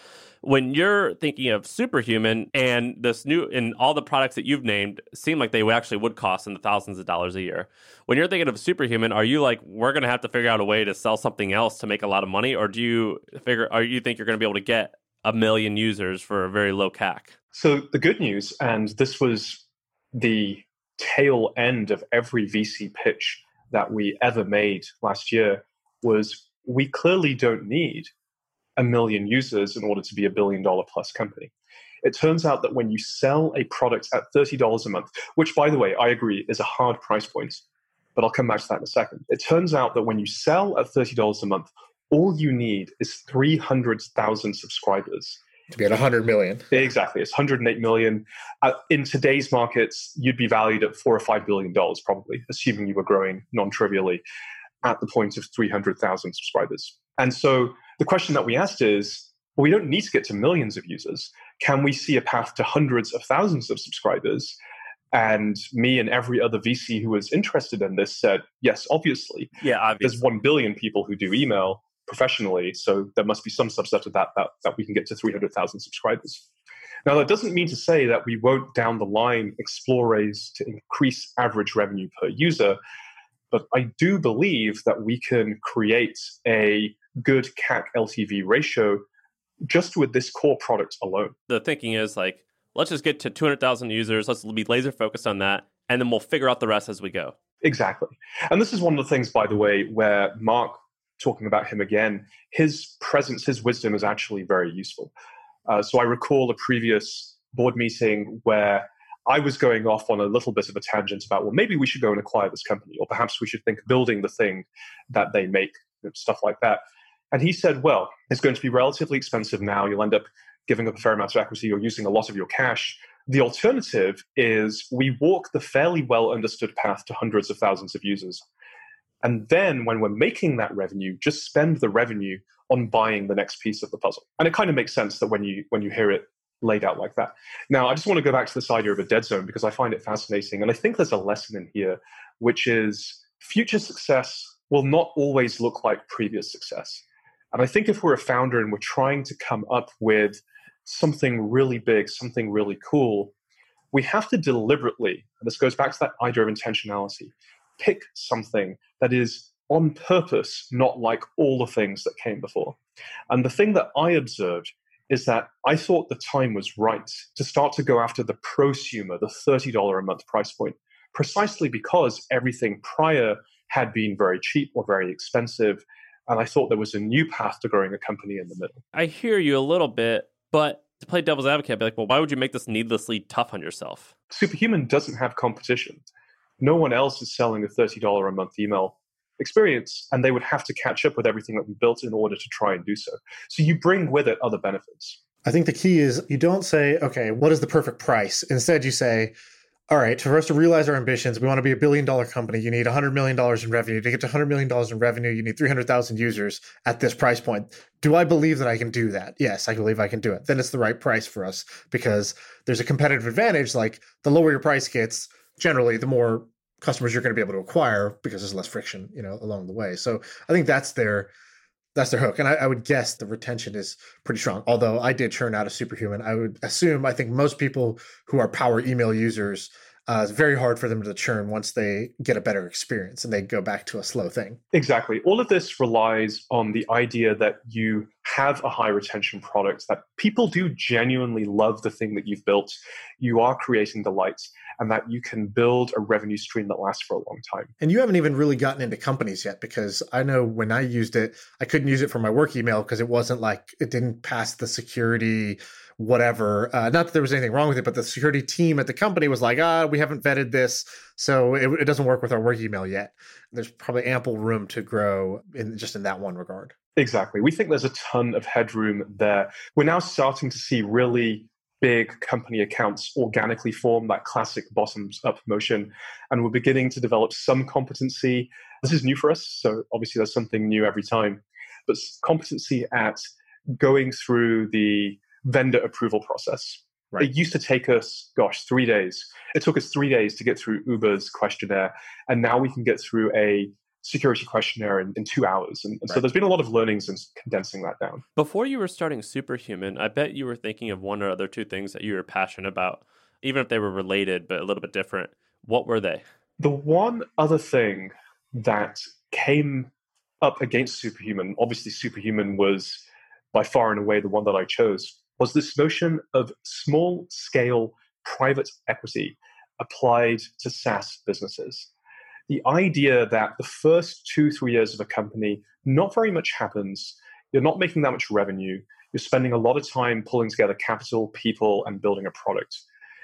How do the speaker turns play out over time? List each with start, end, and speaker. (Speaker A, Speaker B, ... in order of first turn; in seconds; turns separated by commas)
Speaker A: 0.4-17.3, Speaker B: 17.6-19.6, Speaker B: 20.2-28.1, Speaker B: 28.8-31.5, Speaker B: 32.0-37.6, Speaker B: 38.2-45.4, Speaker C: 45.7-46.7, Speaker B: 46.7-54.2, Speaker B: 54.8-64.6, Speaker B: 65.1-69.5, Speaker A: 69.6-70.2, Speaker B: 70.0-76.5, Speaker B: 77.1-82.8, Speaker B: 83.5-89.0, Speaker B: 89.7-91.3, Speaker A: 91.5-97.3, Speaker B: 97.6-105.1, Speaker B: 105.7-128.4, Speaker B: 129.2-153.3, Speaker B: 153.9-162.8, Speaker B: 163.3-178.8, Speaker A: 178.9-184.1, Speaker B: 184.3-186.0, Speaker B: 186.6-195.2, Speaker C: 195.4-199.3, Speaker C: 199.9-221.3, Speaker C: 221.9-234.6, Speaker B: 234.7-247.7, Speaker C: 247.8-266.8, Speaker B: 267.0-283.2, Speaker B: 283.8-298.2, Speaker A: 298.4-306.2, Speaker B: 306.6-321.9, Speaker B: 322.5-332.9